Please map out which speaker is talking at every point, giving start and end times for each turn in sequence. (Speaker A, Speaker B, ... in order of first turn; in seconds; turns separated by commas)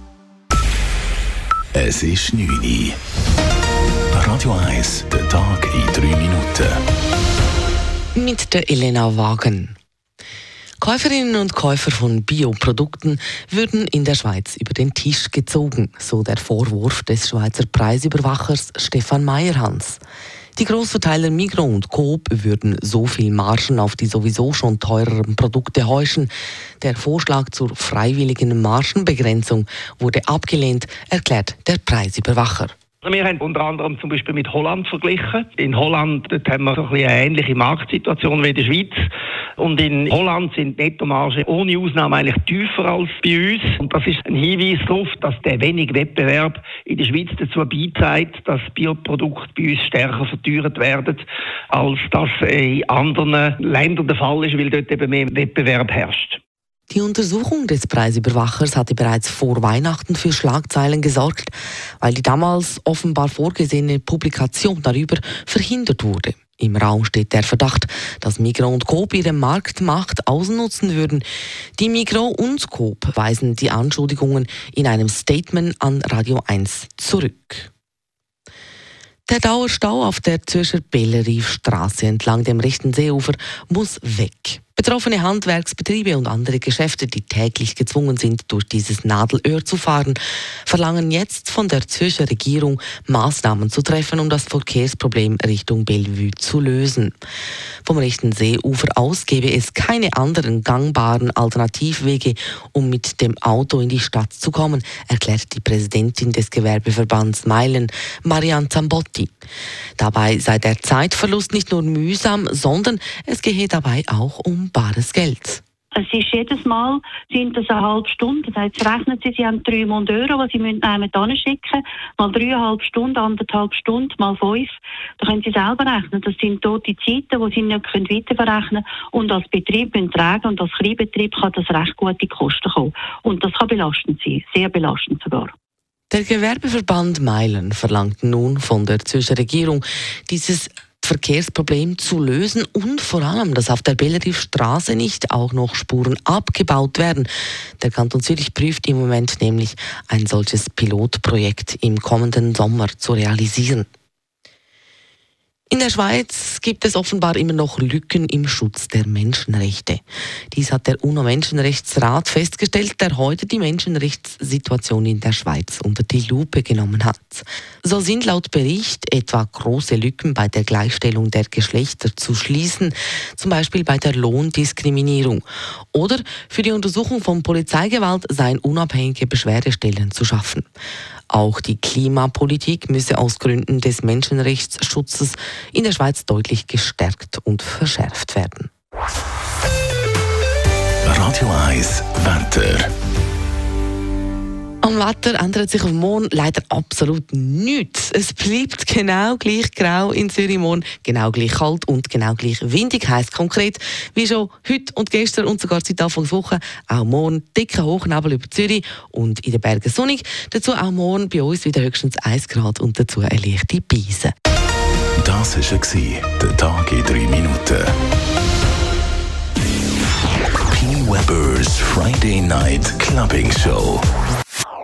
Speaker A: 1.7-3.0, Speaker A: 4.1-6.8, Speaker B: 8.2-9.8, Speaker B: 10.8-20.0, Speaker B: 20.6-32.7, Speaker C: 33.0-56.4, Speaker B: 56.9-71.2, Speaker B: 71.8-77.7, Speaker B: 79.3-97.2, Speaker B: 97.8-109.3, Speaker B: 110.0-115.6, Speaker D: 116.0-135.5, Speaker B: 136.1-147.3, Speaker B: 147.8-153.9, Speaker B: 155.7-180.7, Speaker B: 181.3-188.7, Speaker A: 191.0-192.9, Speaker B: 194.8-214.3, Speaker A: 215.2-217.9, Speaker A: 220.7-224.1